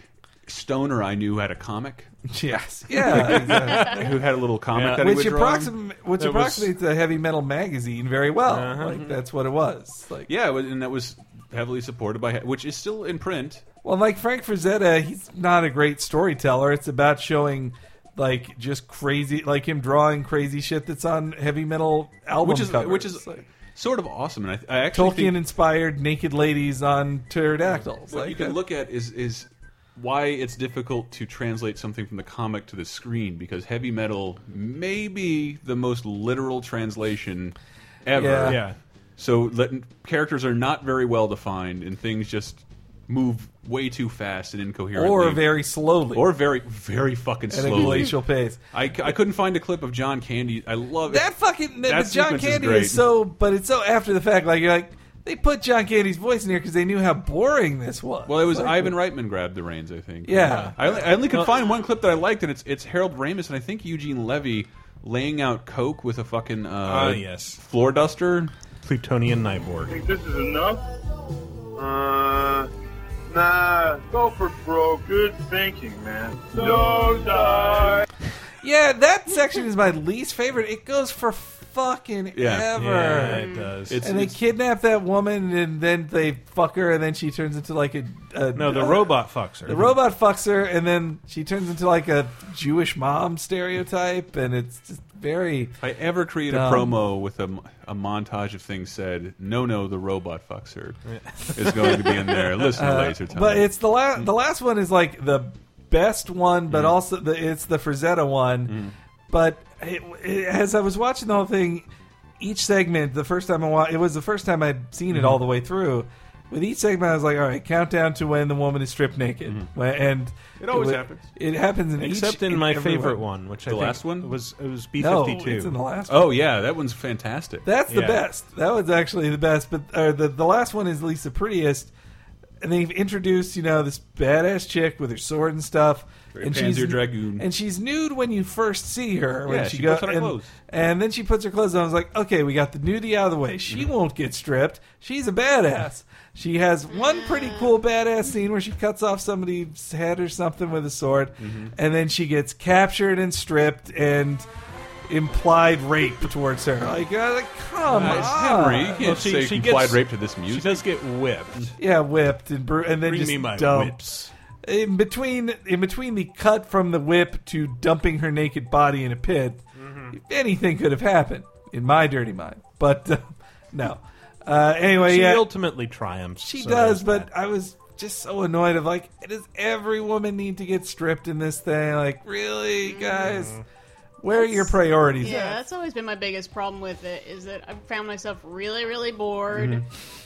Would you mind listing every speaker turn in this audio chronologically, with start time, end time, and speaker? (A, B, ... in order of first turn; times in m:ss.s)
0:00.5-0:02.1 A
0:02.3-0:04.1 B
0:03.1-0:04.0 C
0:03.1-0:05.7 A
0:04.7-0:05.1 C
0:04.8-0:10.3 B
0:06.2-0:06.7 C
0:08.5-0:09.2 C
0:10.3-0:13.6 A
0:13.8-0:23.4 B
0:22.4-0:25.4 A
0:24.9-0:28.6 B
0:28.1-0:45.5 A
0:38.1-0:38.6 B
0:38.5-0:38.8 C
0:44.9-0:46.3 B
0:46.1-0:48.1 A
0:47.5-0:48.6 B
0:48.7-0:51.3 A
0:51.1-0:59.0 B
0:51.8-0:53.1 A
0:58.3-1:08.5 A
1:00.2-1:00.8 B
1:00.4-1:01.5 C
1:06.8-1:07.6 C
1:08.8-1:10.0 C
1:09.9-1:10.8 D
1:11.8-1:12.7 D
1:13.3-1:18.0 D
1:18.6-1:23.4 B
1:22.3-1:23.2 A
1:22.8-1:24.0 C
1:23.3-1:23.7 E
1:23.9-1:24.4 A
1:24.0-1:29.1 B
1:28.6-1:30.0 C
1:29.7-1:35.8 B
1:35.8-1:41.0 A
1:36.5-1:37.0 B
1:41.1-1:42.7 C
1:41.5-1:43.7 A
1:42.8-1:51.9 B
1:48.7-1:48.9 A
1:52.4-2:03.2 B
2:00.6-2:01.3 A
2:02.0-2:05.8 C
2:03.6-2:04.3 A
2:05.0-2:06.3 B
2:06.1-2:07.6 A
2:07.6-2:11.9 B
2:07.9-2:08.2 C
2:12.6-2:34.5 B
2:16.3-2:17.5 A
2:19.5-2:20.5 A
2:27.1-2:27.5 E
2:31.4-2:31.7 A
2:35.1-2:39.1 B
2:37.9-2:41.7 C
2:37.9-2:40.8 A
2:41.8-2:44.0 B
2:43.0-2:44.3 C
2:44.6-2:55.5 B
2:49.8-2:50.2 C
2:55.0-2:57.3 C
2:56.4-3:03.6 B
3:02.8-3:03.3 E
3:03.2-3:03.6 C
3:04.2-3:05.6 B
3:04.3-3:09.8 E
3:09.5-3:09.8 A